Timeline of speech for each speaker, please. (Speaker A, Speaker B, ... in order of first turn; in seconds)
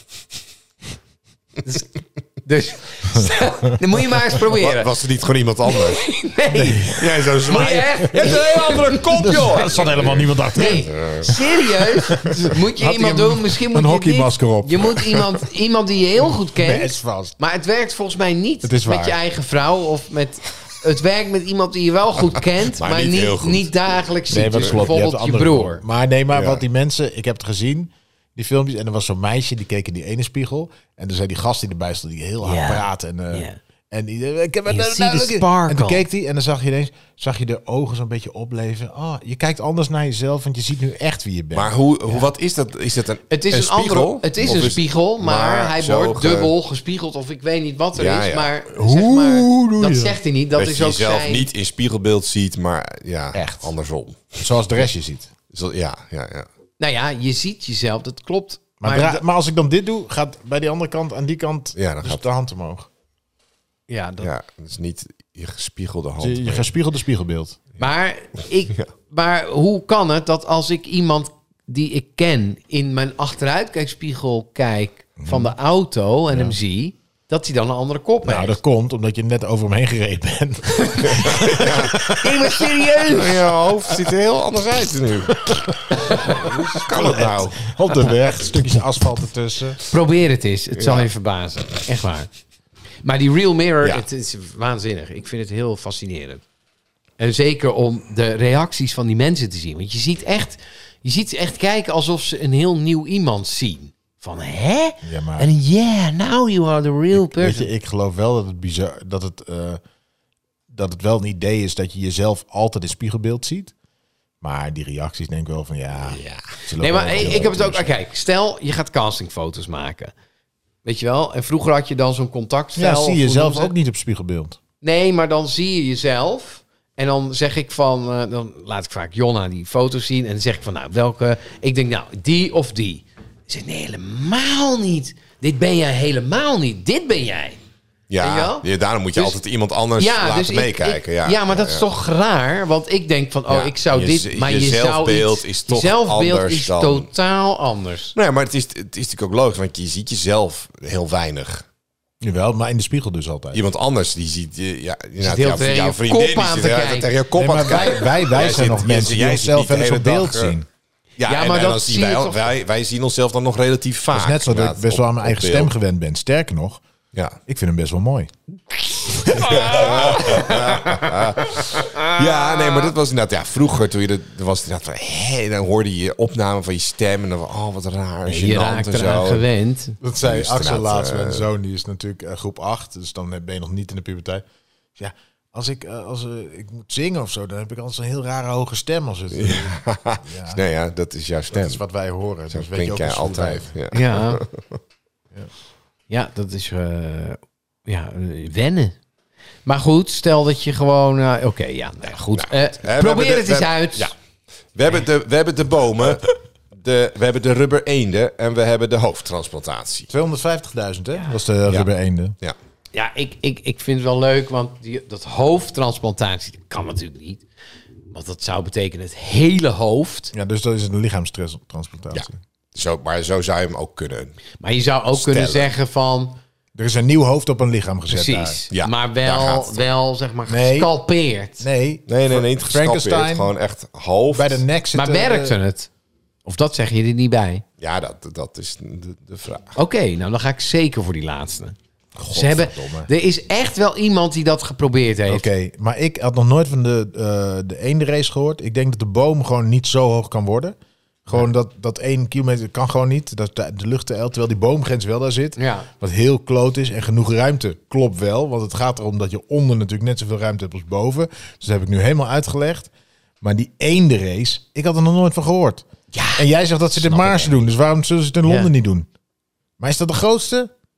Speaker A: 1.6-5.0, 5.7-9.8, 10.5-25.8, 32.4-33.6, 34.7-36.1, 43.3-51.5, 56.8-59.2, 63.9-64.3, 67.8-78.6, 80.9-81.3, 82.1-83.5, 89.9-92.3, 93.0-96.4, 97.2-107.7, 116.8-120.1, 120.8-123.7, 124.8-137.6, 138.2-139.4, 140.0-148.2, 155.2-158.3, 161.3-162.4, 169.2-170.9, 171.7-172.7, 178.3-180.0, 193.9-194.4, 196.1-199.0, 199.7-204.1, 212.9-217.4, 218.1-220.3, 224.6-226.4, 228.1-231.6, 234.9-235.9, 236.5-237.6, 239.8-241.8, 242.3-245.5, 255.6-255.9, 266.1-267.6, 268.4-268.7
Speaker B: 4.5-11.4, 22.7-23.7, 26.3-26.6, 41.5-46.5, 47.9-48.6, 50.6-54.6, 55.5-56.5, 61.8-62.2, 64.2-66.7, 81.0-82.3, 83.1-87.5, 90.8-91.1, 116.0-116.4, 117.2-117.5, 138.1-141.9, 143.5-147.1, 148.2-151.7, 153.5-160.6, 161.2-165.7, 167.1-167.4, 169.3-179.4, 180.2-181.5, 189.3-191.8, 192.5-194.6, 202.3-204.1, 204.8-210.1, 222.1-224.4, 225.1-225.7, 228.7-229.8, 232.1-234.6, 237.8-239.8
Speaker C: 9.2-15.0, 16.6-17.3, 18.6-19.2, 24.3-41.7, 48.7-50.2, 53.3-53.7, 54.4-55.3, 58.8-62.9, 66.2-67.6, 75.2-75.5, 76.3-76.6, 78.2-82.8, 83.9-84.1, 85.9-89.8, 105.0-105.5, 107.2-109.8, 110.7-113.7, 114.4-117.9, 122.8-124.6, 152.2-153.6, 157.3-160.7, 164.1-166.8, 167.5-168.3, 180.0-184.4, 185.0-190.6, 191.5-193.7, 210.1-212.3, 220.3-222.4, 226.8-228.6, 230.5-230.9, 231.6-233.5, 234.3-235.6, 242.2-243.1, 245.3-265.9, 266.4-269.1, 269.8-270.7